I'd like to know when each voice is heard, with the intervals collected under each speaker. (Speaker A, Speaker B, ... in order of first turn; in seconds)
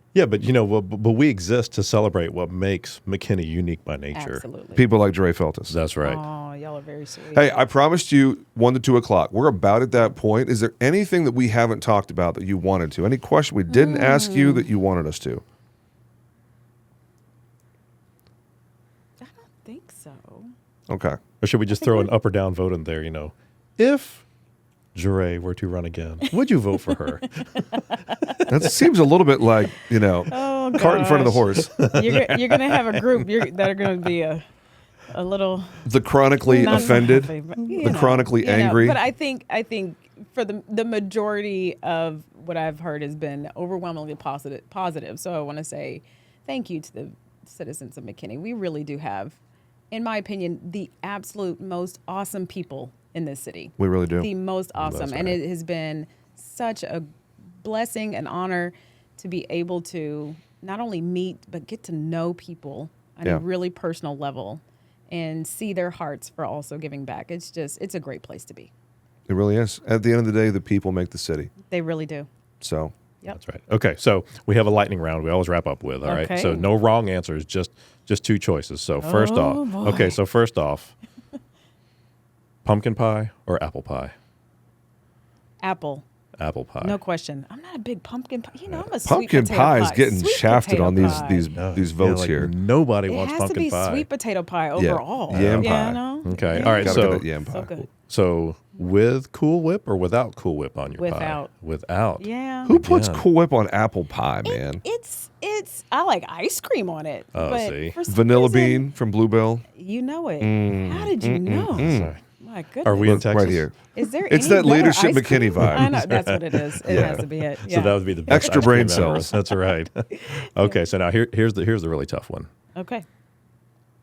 Speaker A: 0.1-4.4, 5.7-6.2, 21.4-24.2, 24.9-28.4, 31.7-32.0, 54.8-55.4, 73.3-80.9, 82.6-84.1, 86.4-87.0, 91.0-94.1, 95.3-97.3, 97.9-103.2, 107.3-108.0, 111.7-112.2, 112.8-113.7, 115.6-122.5
Speaker B: 4.1-4.8, 6.0-7.5, 13.7-14.7, 19.2-20.5, 21.8-22.1, 27.5-28.6, 30.3-34.4, 35.1-35.8, 36.4-49.4, 49.9-57.1, 57.6-68.7, 71.7-72.3, 76.0-76.7, 79.0-80.2, 85.6-86.0, 86.8-91.5, 93.1-97.9, 101.0-101.5, 102.2-102.8, 104.4-108.8, 109.7-113.2, 113.9-118.7, 120.1-120.8, 122.8-123.0
Speaker C: 4.7-5.7, 7.3-15.4, 20.9-21.2, 28.5-32.6, 35.9-39.0, 53.8-54.3, 69.3-71.5, 72.6-72.9, 89.0-92.5, 94.8-96.0, 96.5-97.7, 102.7-104.8, 108.0-109.6, 110.4-112.1, 113.0-113.7, 114.3-116.0, 116.9-117.2, 118.3-119.3